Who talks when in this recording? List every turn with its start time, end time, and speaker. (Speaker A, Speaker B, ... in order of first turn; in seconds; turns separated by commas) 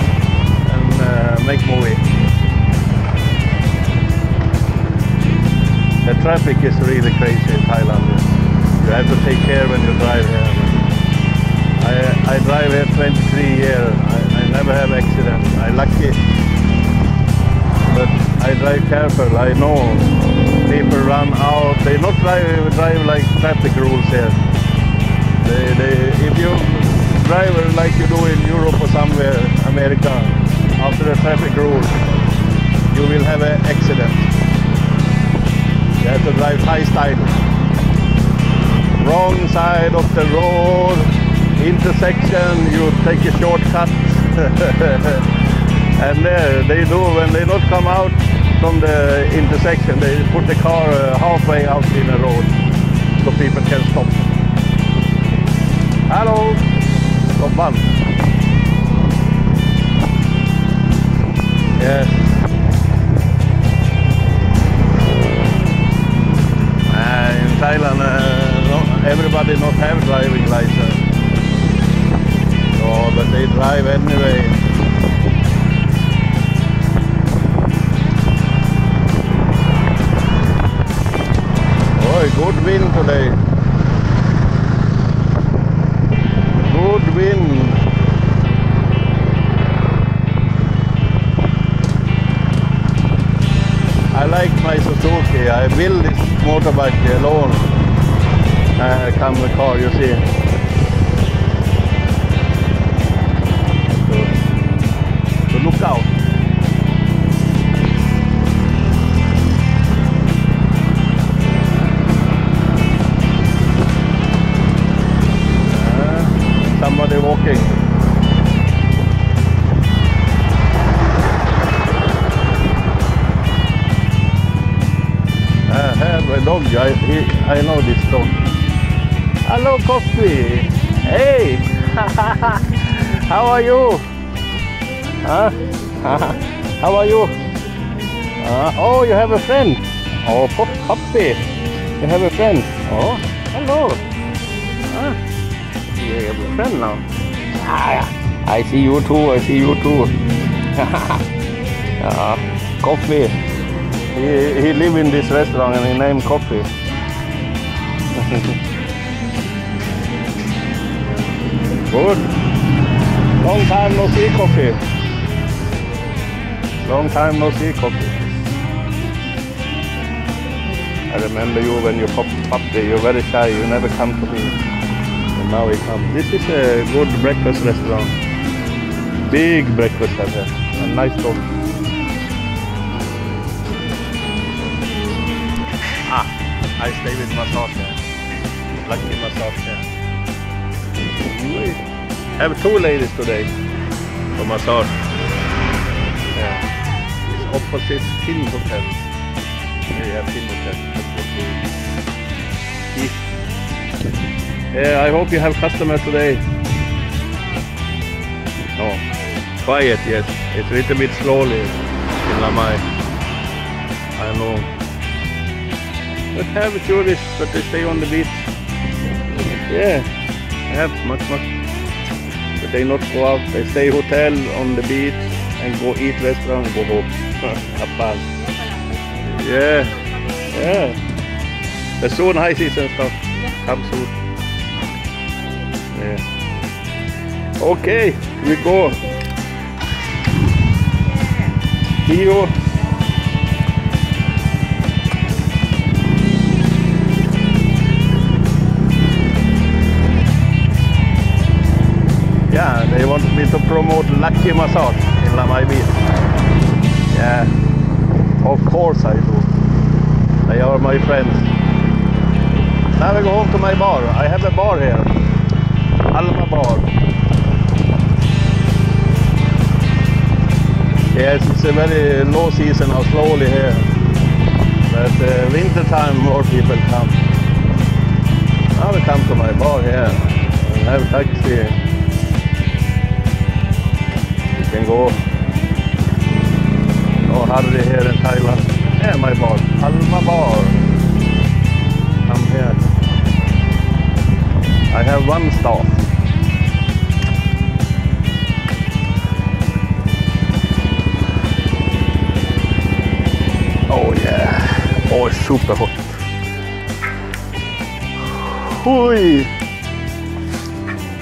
Speaker A: 0.6-2.0, Speaker A: 6.0-10.8, Speaker A: 11.8-16.2, Speaker A: 17.8-24.4, Speaker A: 25.4-32.0, Speaker A: 32.9-34.3, Speaker A: 36.0-37.4, Speaker A: 39.0-45.4, Speaker A: 45.9-52.6, Speaker A: 53.1-54.3, Speaker A: 56.1-56.7, Speaker A: 57.3-58.0, Speaker A: 61.8-62.3, Speaker A: 66.9-71.1, Speaker A: 72.7-74.6, Speaker A: 82.0-83.4, Speaker A: 86.5-87.8, Speaker A: 94.1-97.7, Speaker A: 98.8-100.3, Speaker A: 103.9-104.4, Speaker A: 105.5-106.1, Speaker A: 115.7-117.8, Speaker A: 125.7-128.5, Speaker A: 129.4-134.0, Speaker A: 135.2-137.4, Speaker A: 138.4-141.4, Speaker A: 142.0-144.0, Speaker A: 144.9-145.2, Speaker A: 145.9-150.2, Speaker A: 150.7-151.2, Speaker A: 152.0-153.4, Speaker A: 154.1-156.7, Speaker A: 158.1-158.6, Speaker A: 161.8-162.3, Speaker A: 163.4-164.8, Speaker A: 166.8-168.6, Speaker A: 171.1-174.6, Speaker A: 175.3-178.2, Speaker A: 179.2-181.5, Speaker A: 186.0-188.0, Speaker A: 188.8-189.8, Speaker A: 191.2-191.8, Speaker A: 192.4-193.5, Speaker A: 194.3-194.9, Speaker A: 196.3-196.7, Speaker A: 197.2-199.0, Speaker A: 199.9-201.6, Speaker A: 202.8-203.2, Speaker A: 204.7-206.4, Speaker A: 208.8-212.8, Speaker A: 214.1-214.7, Speaker A: 216.3-218.5, Speaker A: 219.7-220.1, Speaker A: 220.7-221.5, Speaker A: 222.6-228.4, Speaker A: 229.1-231.0, Speaker A: 232.0-234.2, Speaker A: 235.9-236.2, Speaker A: 237.6-239.1, Speaker A: 242.0-242.6, Speaker A: 252.5-256.0, Speaker A: 257.1-257.5, Speaker A: 258.4-259.5, Speaker A: 260.4-261.5, Speaker A: 262.9-265.1, Speaker A: 266.1-266.9, Speaker A: 271.1-273.9, Speaker A: 274.8-277.2, Speaker A: 278.7-281.8, Speaker A: 284.5-285.2, Speaker A: 287.2-290.8, Speaker A: 292.2-292.8, Speaker A: 294.9-296.0, Speaker A: 303.9-306.2, Speaker A: 308.3-309.5